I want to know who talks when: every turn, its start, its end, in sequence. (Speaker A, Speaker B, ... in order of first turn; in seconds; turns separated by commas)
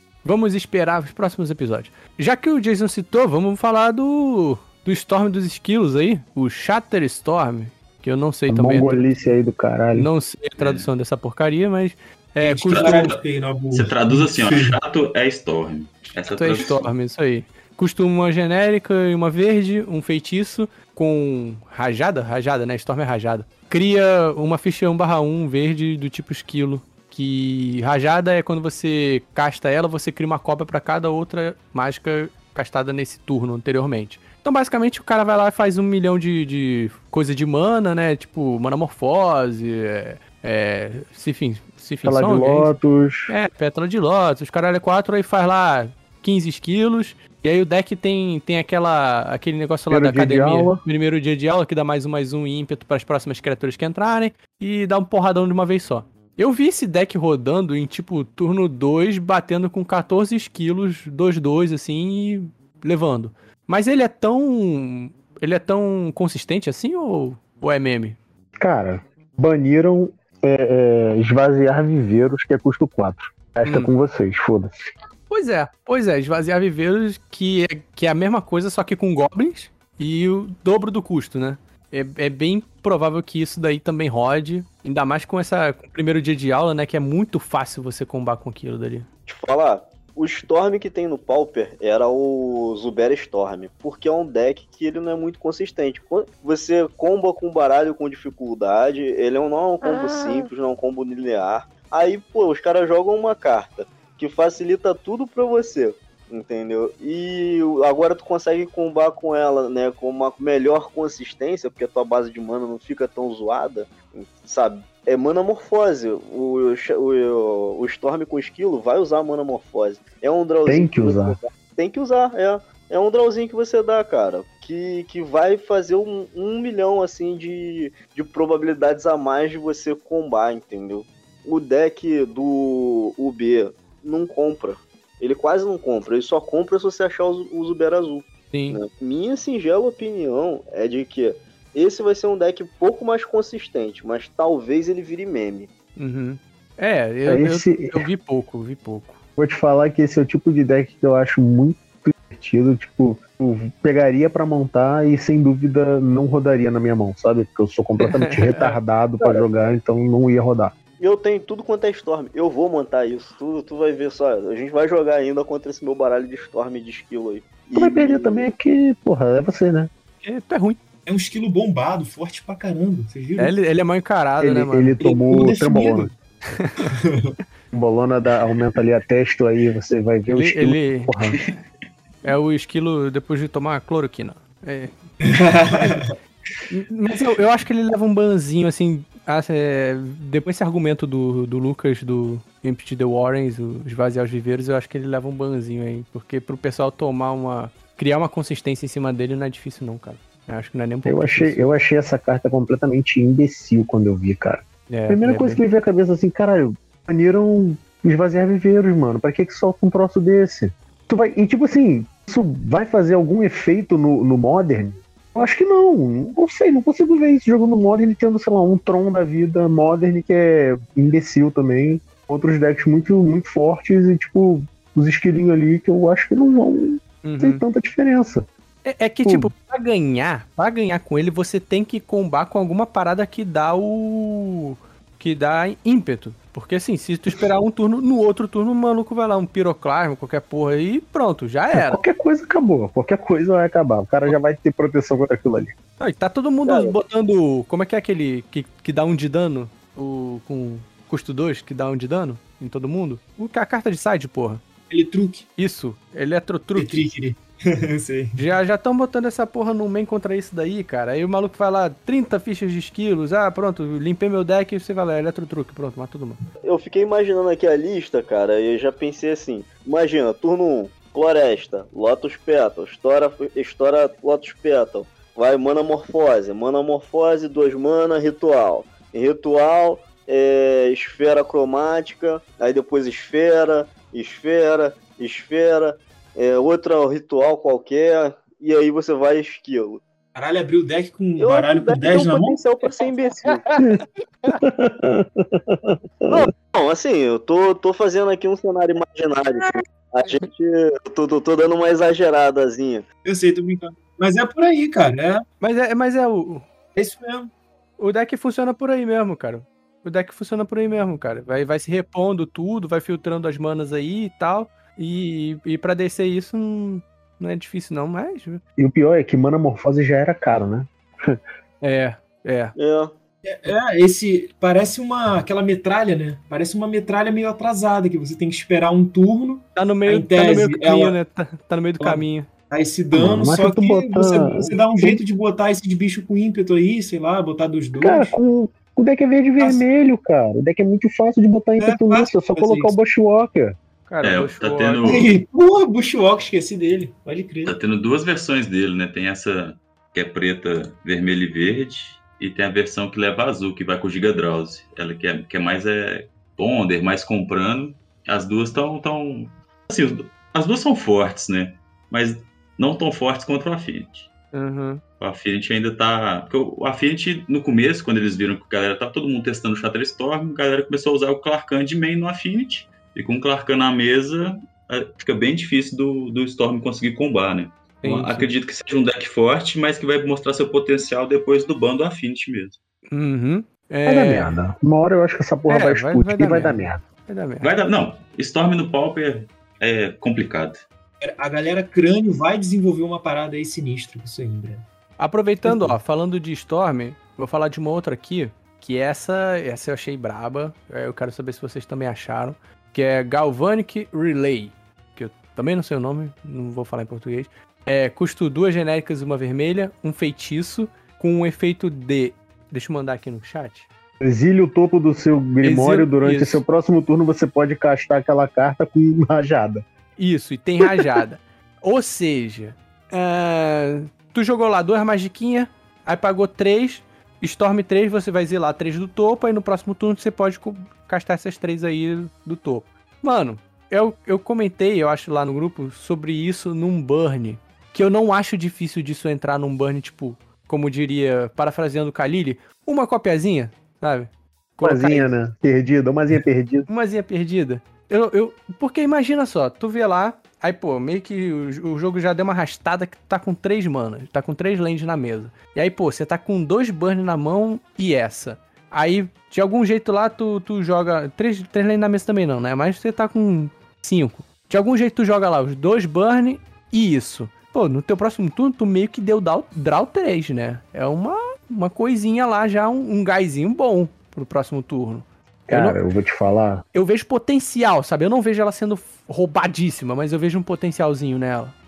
Speaker A: 0.2-9.0, Speaker B: 8.5-10.1, Speaker A: 9.9-13.2, Speaker C: 10.6-10.9, Speaker D: 12.4-14.8, Speaker C: 12.6-13.2, Speaker C: 13.7-16.9, Speaker A: 16.1-42.7, Speaker B: 42.0-43.3, Speaker A: 43.3-68.2, Speaker B: 49.9-50.8, Speaker B: 68.6-74.7, Speaker A: 73.7-73.9, Speaker A: 75.3-89.1, Speaker E: 89.3-145.7, Speaker B: 120.7-121.4, Speaker A: 138.5-138.8, Speaker A: 146.0-149.2, Speaker B: 147.2-148.1, Speaker B: 149.4-160.7, Speaker A: 158.0-158.8, Speaker E: 161.0-168.5, Speaker B: 167.8-169.9, Speaker A: 170.2-170.8, Speaker D: 171.1-173.5, Speaker A: 173.4-175.4, Speaker B: 174.4-176.1, Speaker D: 175.3-176.1, Speaker A: 176.5-176.9, Speaker D: 176.8-177.3, Speaker B: 177.7-181.4, Speaker A: 180.3-181.1, Speaker A: 182.2-184.9, Speaker D: 185.2-186.1, Speaker A: 185.7-186.0, Speaker A: 186.7-201.7, Speaker B: 201.0-228.5, Speaker A: 204.9-205.6, Speaker A: 227.2-227.6, Speaker A: 228.8-242.0, Speaker B: 229.2-229.5, Speaker B: 241.7-245.7, Speaker A: 246.0-254.6, Speaker E: 246.7-246.9, Speaker D: 254.9-255.5, Speaker A: 255.6-257.0, Speaker D: 256.8-258.5, Speaker A: 258.4-266.4, Speaker E: 266.6-290.0, Speaker D: 290.3-292.6, Speaker E: 291.4-293.7, Speaker A: 293.4-294.6, Speaker B: 294.6-296.4, Speaker E: 296.3-303.1, Speaker D: 303.2-305.4, Speaker A: 305.6-306.7, Speaker D: 306.9-307.5, Speaker A: 308.0-318.6, Speaker B: 318.8-321.4, Speaker A: 321.8-322.7, Speaker E: 322.8-323.1, Speaker D: 323.5-331.2, Speaker A: 329.8-332.5, Speaker D: 332.0-338.3, Speaker B: 333.1-335.2, Speaker B: 338.0-343.8, Speaker D: 339.6-339.8, Speaker D: 341.8-342.9, Speaker A: 344.1-345.1, Speaker C: 344.2-345.3, Speaker D: 345.0-347.7, Speaker C: 347.6-364.3, Speaker A: 364.5-365.0, Speaker C: 365.2-382.8, Speaker A: 378.0-378.5, Speaker A: 383.1-384.6, Speaker B: 384.1-387.0, Speaker A: 385.7-387.7, Speaker C: 387.6-390.8, Speaker D: 391.2-394.8, Speaker A: 395.2-413.9, Speaker B: 414.2-419.8, Speaker A: 415.6-416.6, Speaker A: 420.2-445.3, Speaker B: 420.8-421.1, Speaker B: 444.8-446.9, Speaker A: 446.9-476.0, Speaker B: 475.7-476.8, Speaker A: 476.9-481.7